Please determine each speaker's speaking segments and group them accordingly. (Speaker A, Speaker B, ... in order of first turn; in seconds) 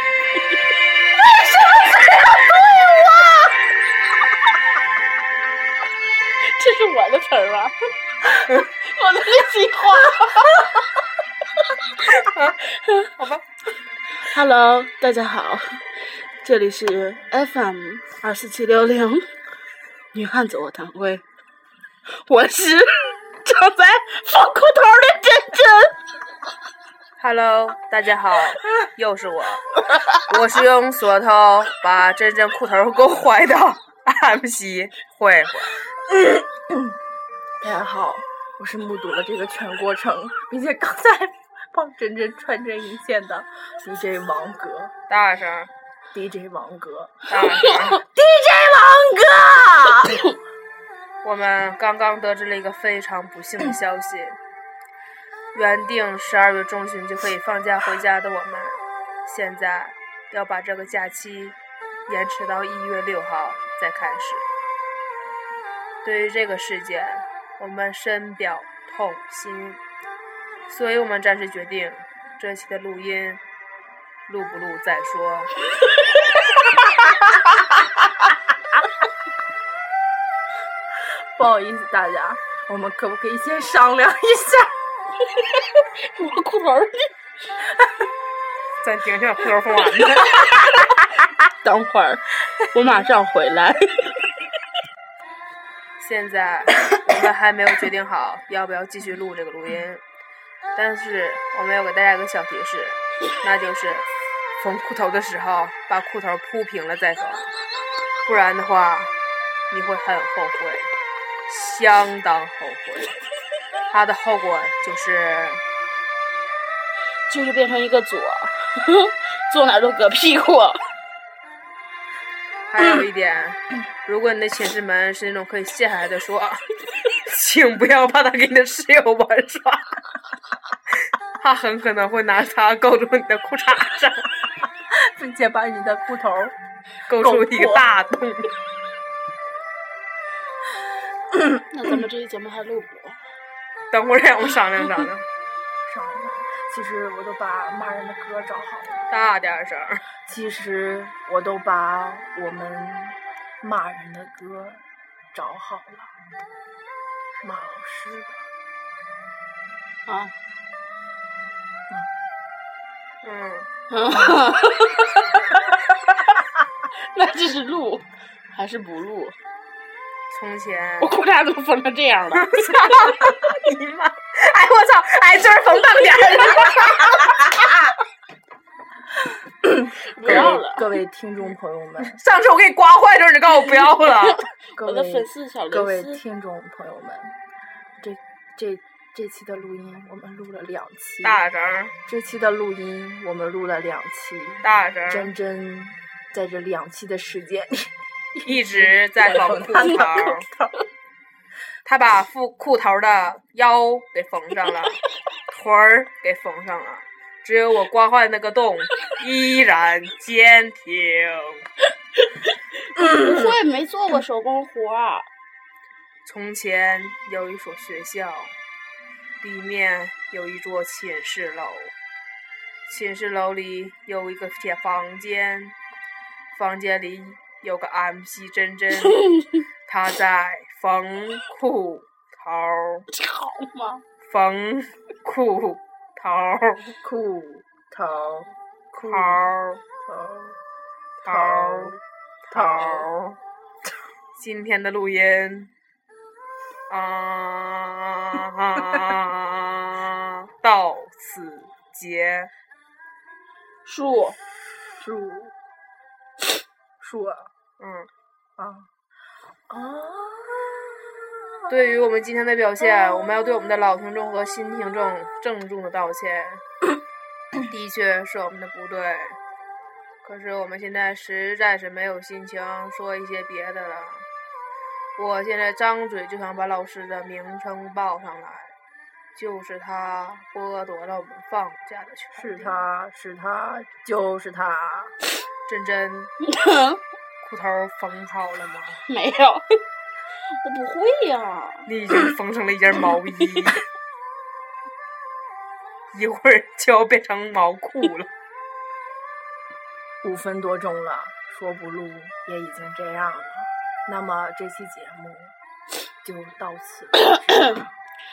Speaker A: 1.4-3.4, 6.5-7.7, 8.7-10.8, 14.2-19.3, 20.1-21.2, 22.2-25.9, 47.3-48.0, 85.4-87.1, 91.6-93.9, 117.3-120.8, 141.7-143.2, 160.1-160.3, 163.9-166.4, 167.1-169.3, 171.0-172.7, 180.1-180.8, 183.5-186.2, 212.4-215.3, 233.1-234.0, 253.8-254.3, 286.5-287.0, 289.1-289.7, 290.6-292.2, 307.3-307.8
Speaker B: 12.1-12.6, 13.2-13.4, 27.2-29.6, 30.3-35.8, 45.1-45.7, 47.3-48.0, 51.2-54.4, 55.5-64.4, 66.0-69.8, 70.7-73.4, 74.3-75.5, 88.8-90.6, 96.0-100.0, 100.8-104.1, 104.6-107.5, 108.2-109.1, 109.7-110.9, 111.5-113.2, 113.9-115.6, 122.7-126.6, 127.2-129.9, 131.4-134.3, 137.1-138.5, 143.9-145.2, 149.1-150.0, 163.2-163.7, 170.3-171.1, 172.4-177.6, 180.3-180.6, 182.1-184.4, 191.2-191.9, 194.6-195.3, 198.4-200.5, 201.8-205.0, 205.5-211.6, 216.2-218.5, 219.4-221.9, 222.9-225.8, 226.5-229.2, 229.9-233.1, 234.2-236.9, 238.9-239.8, 241.2-243.4, 244.3-245.7, 246.9-252.5, 257.8-258.1, 261.7-266.6, 267.6-269.4, 270.2-274.2, 275.2-278.7, 279.3-282.8, 285.7-286.3, 287.4-289.0, 291.9-293.8, 296.1-298.3
Speaker C: 36.2-36.9, 37.6-44.9, 46.1-47.2, 48.0-50.3, 81.3-84.7, 135.0-136.5, 137.2-137.9, 145.8-149.1, 150.3-154.8, 155.3-156.1, 157.4-158.4, 179.6-182.2, 184.8-187.3, 188.0-191.4, 192.1-200.7, 237.0-240.6, 241.2-241.9, 242.5-243.1, 255.0-255.5, 257.0-257.5, 258.6-258.9, 259.7-261.1, 282.3-285.1, 300.2-305.5, 306.2-307.9